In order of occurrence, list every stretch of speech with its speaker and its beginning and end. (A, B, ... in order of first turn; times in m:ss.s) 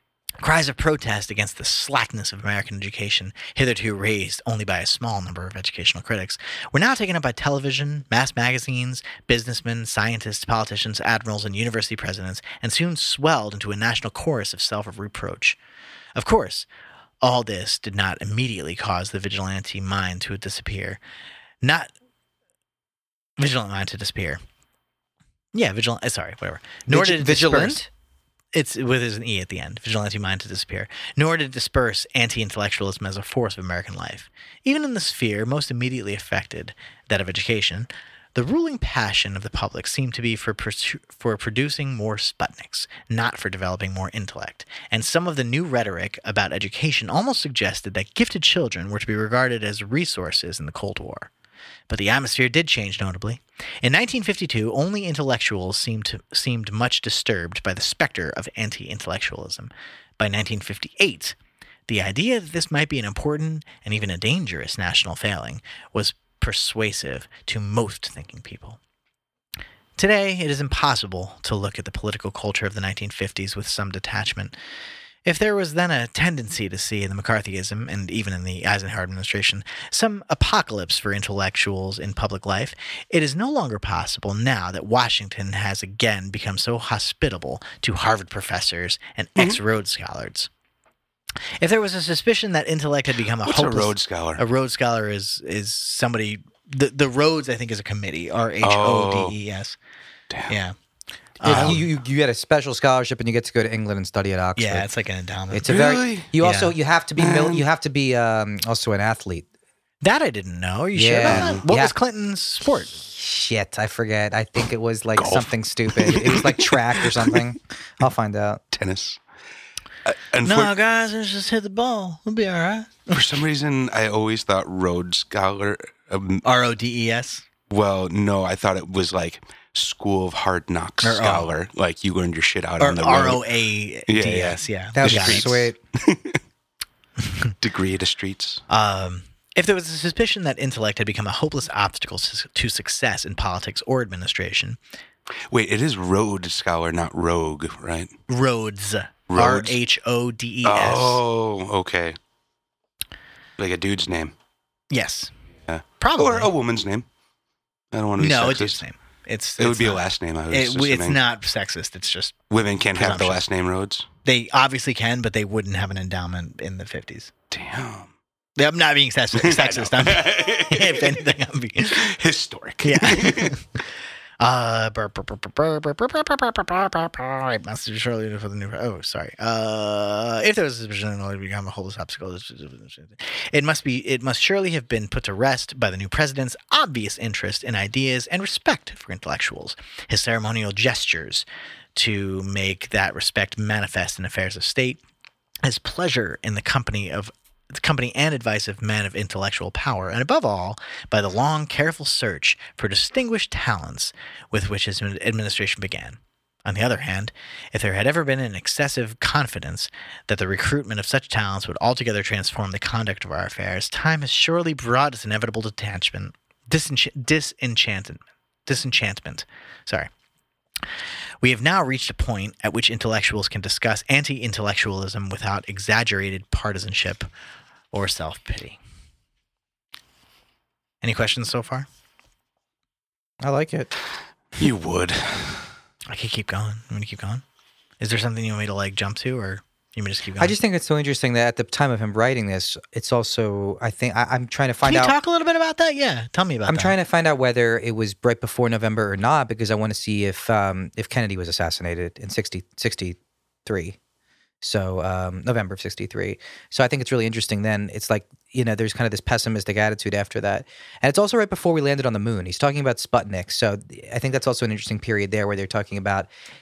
0:00.4-0:15.6 A
0:16.2-0:16.7 A
0:17.2-0:21.0 A
0:21.6-0:21.9 A
0:23.4-0:24.4 A
0:25.5-0:27.9 A
0:26.9-0:27.9 B
0:28.5-0:51.3 A
0:51.9-1:01.4 A
1:01.9-1:08.8 A
1:10.0-1:14.5 A
1:15.3-1:30.5 A
1:31.6-1:39.8 A
1:33.4-1:34.4 C
1:38.6-1:39.4 C
1:40.3-1:40.6 C
1:40.5-1:40.8 A
1:41.4-1:41.9 A
1:41.4-1:44.9 B
1:41.4-1:41.8 C
1:44.6-1:45.8 A
1:45.5-1:49.5 B
1:45.7-1:46.3 C
1:46.4-1:46.8 A
1:47.2-1:47.7 C
1:50.0-1:53.0 A
1:50.9-1:51.9 B
1:51.2-1:51.6 C
1:53.1-1:58.6 B
1:55.2-1:57.4 C
1:58.7-1:59.2 C
2:00.0-2:00.7 C
2:00.4-2:03.3 A
2:03.1-2:06.4 C
2:06.4-2:07.4 A
2:07.7-2:13.4 C
2:11.0-2:11.5 A
2:12.8-2:15.7 A
2:14.1-2:16.4 C
2:15.0-2:15.8 B
2:17.6-2:18.6 C
2:18.7-2:24.8 A
2:25.5-2:28.1 C
2:28.3-2:31.2 A
2:29.3-2:29.8 C
2:30.6-2:32.2 C
2:33.6-2:34.4 C
2:34.9-2:35.3 A
2:35.7-2:37.1 C
2:36.0-2:36.5 A
2:37.9-2:38.8 C
2:38.2-2:42.4 A
2:39.6-2:41.2 C
2:42.5-2:44.1 C
2:43.0-2:43.4 A
2:44.2-2:47.3 A
2:47.5-2:48.1 C
2:48.6-2:52.1 A
2:49.3-2:51.3 C
2:51.9-2:53.6 C
2:52.8-2:53.8 A
2:54.4-3:11.4 A
3:12.0-3:15.0 A
3:15.6-3:40.1 A
3:41.4-3:47.3 A
3:47.9-3:48.8 A
3:51.0-3:51.9 A
3:53.4-3:53.9 B
3:54.6-3:55.7 C
3:56.1-3:57.4 A
3:58.0-4:00.6 A
4:00.4-4:05.2 B
4:04.8-4:07.0 A
4:06.7-4:14.0 B
4:14.6-4:26.3 B